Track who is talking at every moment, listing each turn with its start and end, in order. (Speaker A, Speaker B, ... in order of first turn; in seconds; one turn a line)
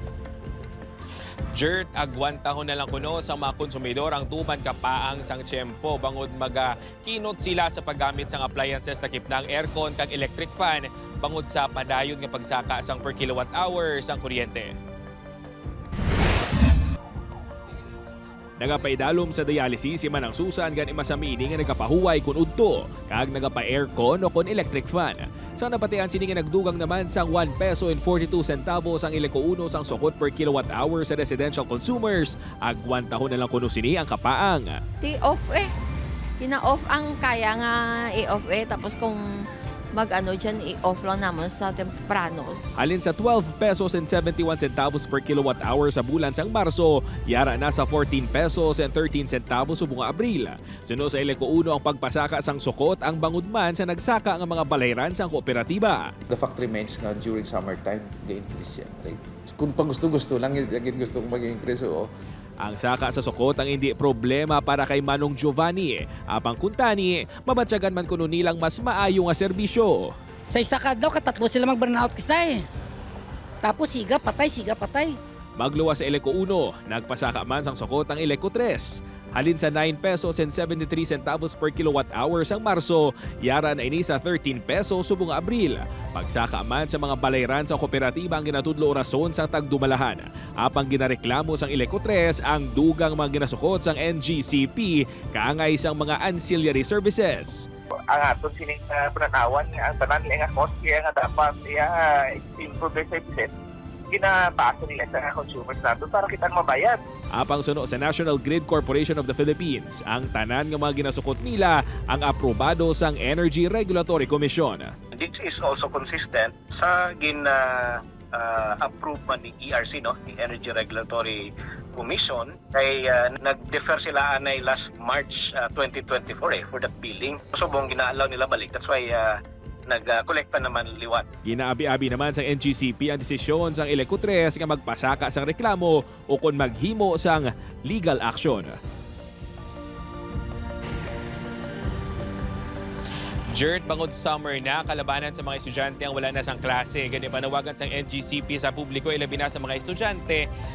Speaker A: 1.7-6.3
Speaker A: 7.0-7.4
Speaker A: 8.0-9.2
Speaker A: 9.8-10.8
Speaker A: 14.1-14.7
Speaker A: 18.6-34.8
Speaker B: 35.0-35.7
Speaker B: 36.4-39.2
Speaker B: 39.9-42.6
Speaker A: 42.8-56.1
Speaker C: 56.3-62.1
Speaker A: 62.6-70.1
Speaker D: 70.5-72.6
Speaker D: 73.6-75.2
Speaker A: 75.6-97.7
Speaker E: 98.7-101.8
Speaker E: 102.6-103.2
Speaker E: 104.2-106.6
Speaker A: 107.3-114.9
Speaker F: 115.1-131.3
Speaker A: 131.4-138.8
Speaker A: 143.7-150.4